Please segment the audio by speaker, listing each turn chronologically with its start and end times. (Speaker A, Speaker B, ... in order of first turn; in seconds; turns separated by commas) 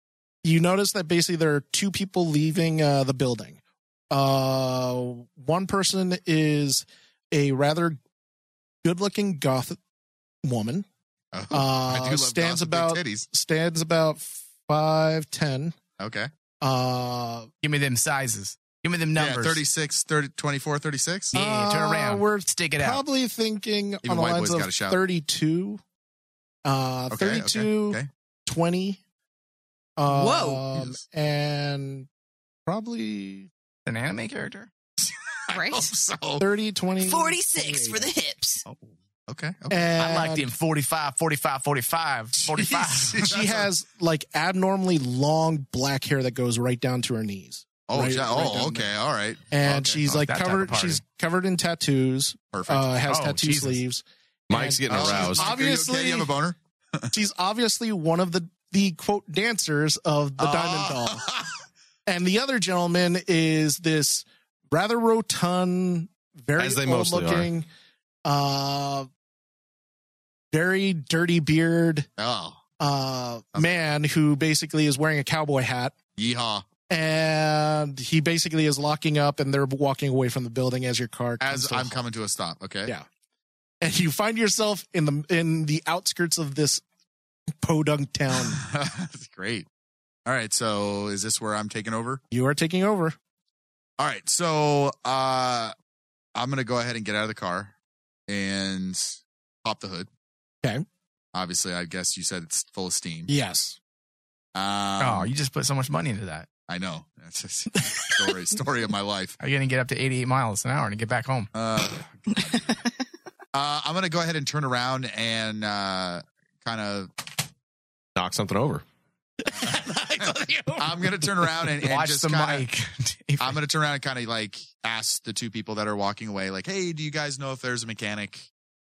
Speaker A: 0.4-3.6, Speaker A: 4.1-8.0, Speaker A: 8.8-9.8, Speaker A: 10.4-10.9, Speaker B: 11.3-13.3, Speaker A: 11.5-15.8, Speaker B: 16.0-16.3, Speaker A: 16.6-17.5, Speaker C: 17.6-19.6, Speaker B: 19.2-21.3, Speaker C: 21.3-23.0, Speaker A: 21.3-25.8, Speaker B: 24.0-25.0, Speaker A: 26.6-29.0, Speaker B: 27.1-28.1, Speaker A: 30.0-32.1, Speaker D: 30.1-30.6, Speaker A: 32.7-33.5, Speaker C: 33.9-34.7, Speaker B: 35.5-36.4, Speaker D: 35.5-35.9, Speaker A: 36.4-38.1, Speaker D: 37.0-38.6, Speaker B: 38.7-39.9, Speaker A: 39.7-40.5, Speaker C: 40.0-43.3, Speaker B: 42.4-43.7, Speaker A: 43.2-48.9, Speaker B: 47.9-50.1, Speaker A: 49.5-56.3, Speaker C: 50.1-51.0, Speaker B: 52.5-52.9, Speaker C: 53.0-53.8, Speaker E: 54.5-55.5, Speaker B: 54.9-57.1, Speaker A: 57.1-61.3, Speaker B: 60.4-61.5, Speaker A: 62.1-67.7, Speaker E: 66.6-67.5, Speaker A: 68.2-69.1, Speaker A: 70.5-72.1, Speaker B: 72.2-72.6, Speaker A: 72.8-76.0, Speaker B: 76.2-76.6, Speaker A: 76.9-82.0, Speaker B: 81.4-82.9, Speaker A: 83.8-86.8, Speaker A: 87.6-88.6, Speaker B: 88.5-89.7, Speaker B: 90.3-92.2, Speaker A: 92.3-93.2, Speaker B: 94.0-95.7, Speaker B: 96.3-97.7, Speaker B: 98.3-100.1, Speaker B: 101.3-103.3, Speaker A: 103.3-103.8, Speaker B: 104.5-105.3, Speaker C: 105.0-106.5, Speaker B: 106.7-109.4, Speaker C: 109.4-111.5, Speaker B: 111.5-112.2, Speaker B: 113.5-117.1, Speaker E: 118.2-118.8, Speaker A: 119.5-121.1, Speaker B: 120.2-122.7, Speaker C: 121.8-123.6, Speaker B: 123.4-128.5